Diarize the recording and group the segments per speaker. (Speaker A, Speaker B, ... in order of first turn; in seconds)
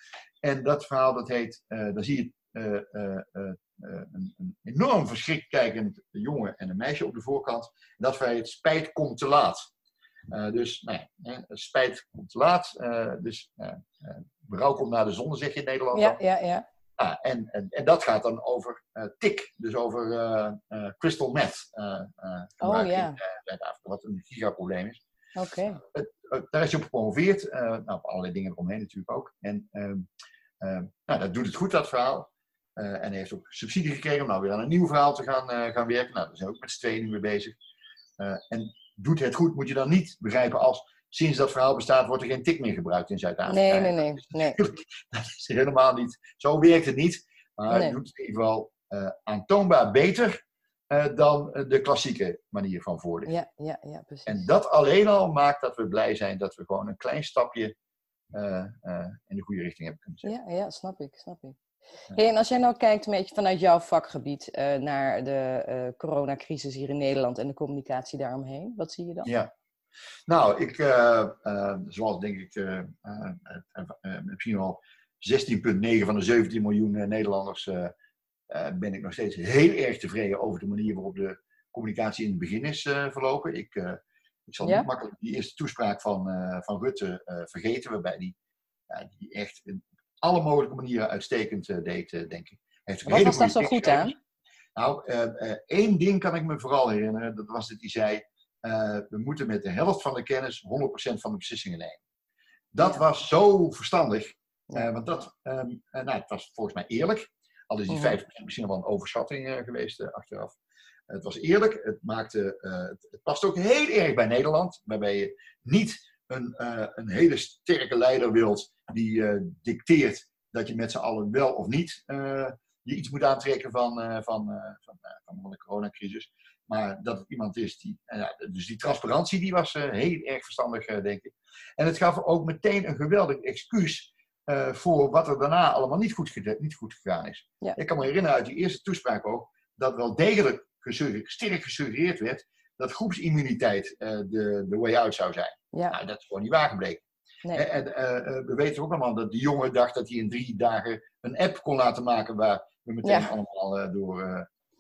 Speaker A: 0.4-9.7, 10.3-16.2, 17.0-25.0, 25.7-30.1, 30.6-37.5, 38.2-50.4, 50.9-53.3, 54.2-57.7, 58.3-60.3, 69.2-69.5, 70.3-77.9, 78.5-88.3, 88.9-94.2, 94.8-102.0, 102.7-110.5, 111.1-154.5
Speaker B: 15.9-16.6, 22.6-23.2, 25.3-25.8, 43.5-44.6, 47.7-47.9, 53.3-54.4, 60.2-61.6, 62.1-69.3, 84.6-84.9, 93.0-94.1, 107.9-108.2, 153.0-153.3